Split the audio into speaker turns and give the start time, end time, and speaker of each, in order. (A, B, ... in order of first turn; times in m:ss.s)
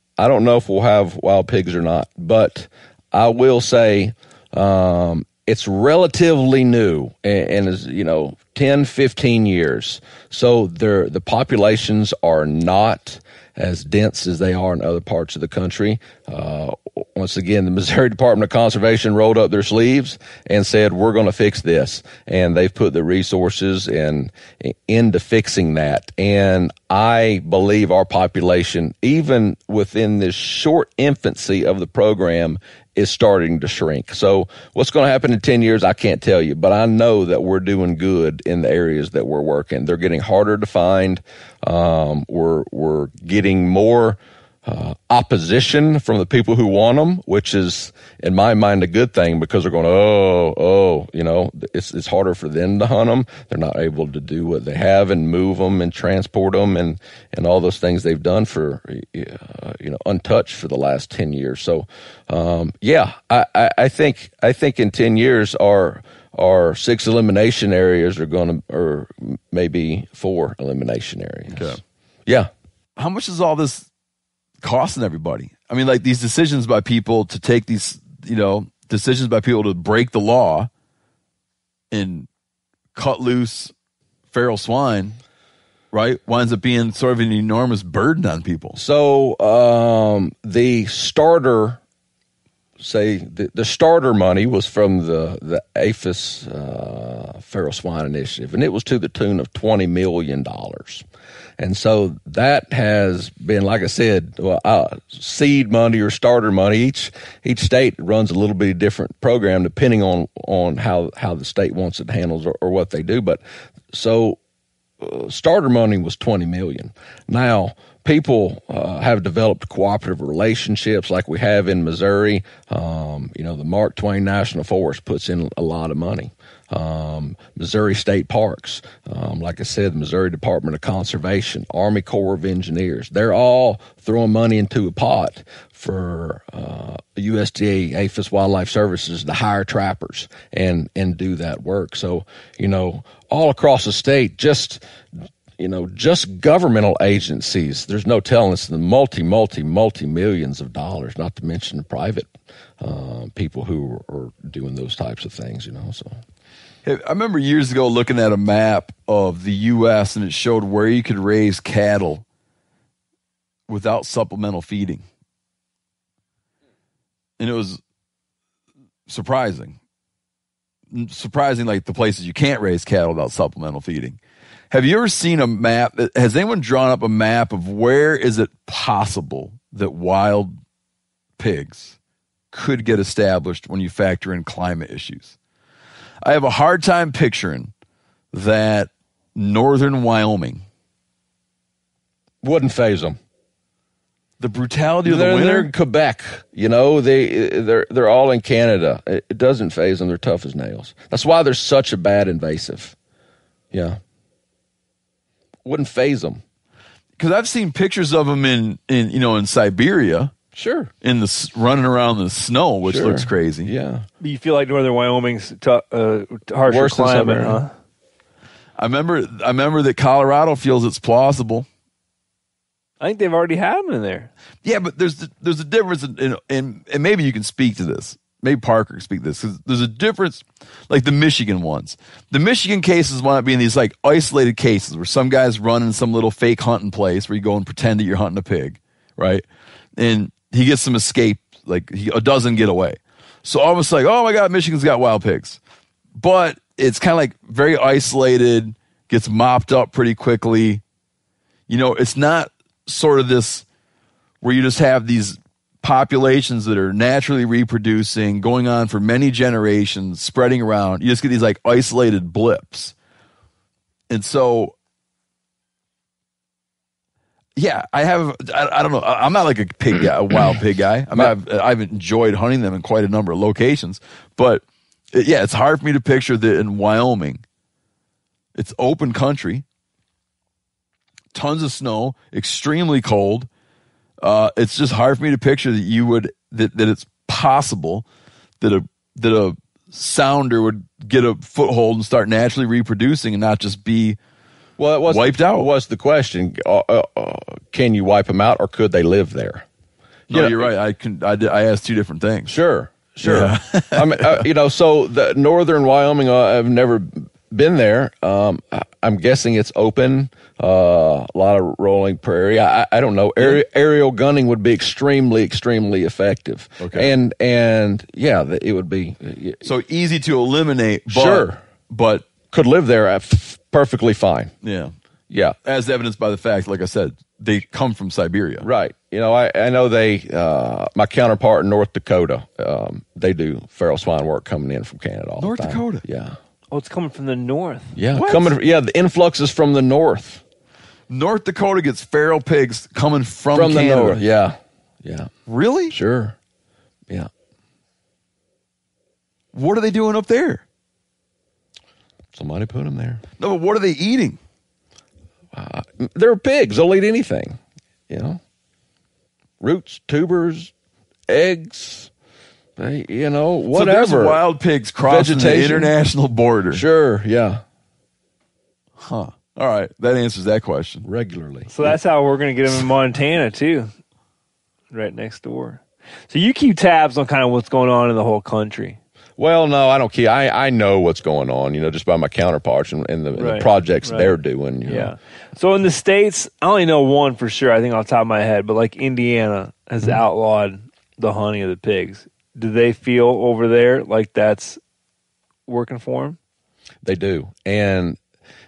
0:00.2-1:12.5 A
1:11.5-1:11.8 B
1:13.0-1:13.9 B
1:14.6-1:20.7 B
1:21.9-1:22.3 B
1:23.0-1:23.7 B
1:24.3-1:25.2 B
1:25.9-1:28.8 B
1:28.8-1:31.8 A
1:32.8-1:41.1 A
1:41.6-1:54.4 A
1:55.0-2:24.8 A
2:25.6-2:36.2 A
2:36.8-2:42.2 B
2:43.7-2:45.0 B
2:47.4-2:47.8 B
2:49.1-2:49.8 B
2:50.9-2:54.2 B
2:54.7-3:00.6 B
3:01.4-3:02.0 B
3:02.5-3:05.4 B
3:06.2-3:07.7 B
3:08.3-3:10.6 B
3:12.4-3:13.2 A
3:14.4-3:15.7 B
3:15.0-3:23.0 A
3:23.7-3:24.0 A
3:25.6-3:26.4 A
3:27.2-3:30.3 B
3:30.5-3:30.9 A
3:31.0-3:33.7 B
3:32.8-3:34.1 A
3:34.2-3:37.7 C
3:36.7-3:37.6 A
3:38.8-3:41.7 B
3:43.0-3:44.3 C
3:44.6-4:05.6 B
4:06.2-4:10.8 B
4:11.7-4:13.6 B
4:14.4-4:22.9 B
4:24.1-4:24.8 B
4:27.6-4:37.4 B
4:38.6-4:39.6 B
4:41.3-4:43.5 B
4:44.2-4:48.0 B
4:48.6-4:54.2 B
4:54.8-4:59.6 A
4:55.1-4:55.7 B
5:00.3-5:02.6 B
5:00.3-5:00.7 A
5:02.5-5:19.6 A
5:03.2-5:04.4 B
5:16.8-5:17.1 B
5:19.6-5:22.3 B
5:21.1-5:21.6 A
5:22.5-5:24.5 A
5:24.6-5:24.9 B
5:25.3-5:25.6 A
5:25.6-5:28.7 B
5:28.6-5:36.4 A
5:35.4-5:36.0 B
5:36.7-5:38.0 C
5:37.9-5:40.4 A
5:38.1-5:38.5 B
5:41.1-5:44.2 B
5:43.5-5:45.3 A
5:45.5-5:46.0 B
5:45.9-5:46.4 A
5:49.5-5:50.6 B
5:52.3-5:53.2 A
5:53.4-5:54.4 B
5:55.5-5:58.4 A
5:59.6-6:00.7 A
6:01.3-6:02.1 A
6:02.8-6:04.4 A
6:03.7-6:06.8 B
6:05.0-6:05.9 A
6:06.7-6:07.6 A
6:09.0-6:11.1 B
6:11.0-6:12.0 A
6:11.7-6:13.9 C
6:14.9-6:19.0 C
6:19.4-6:25.1 A
6:23.4-6:34.8 C
6:35.7-6:36.4 C
6:37.0-6:38.2 A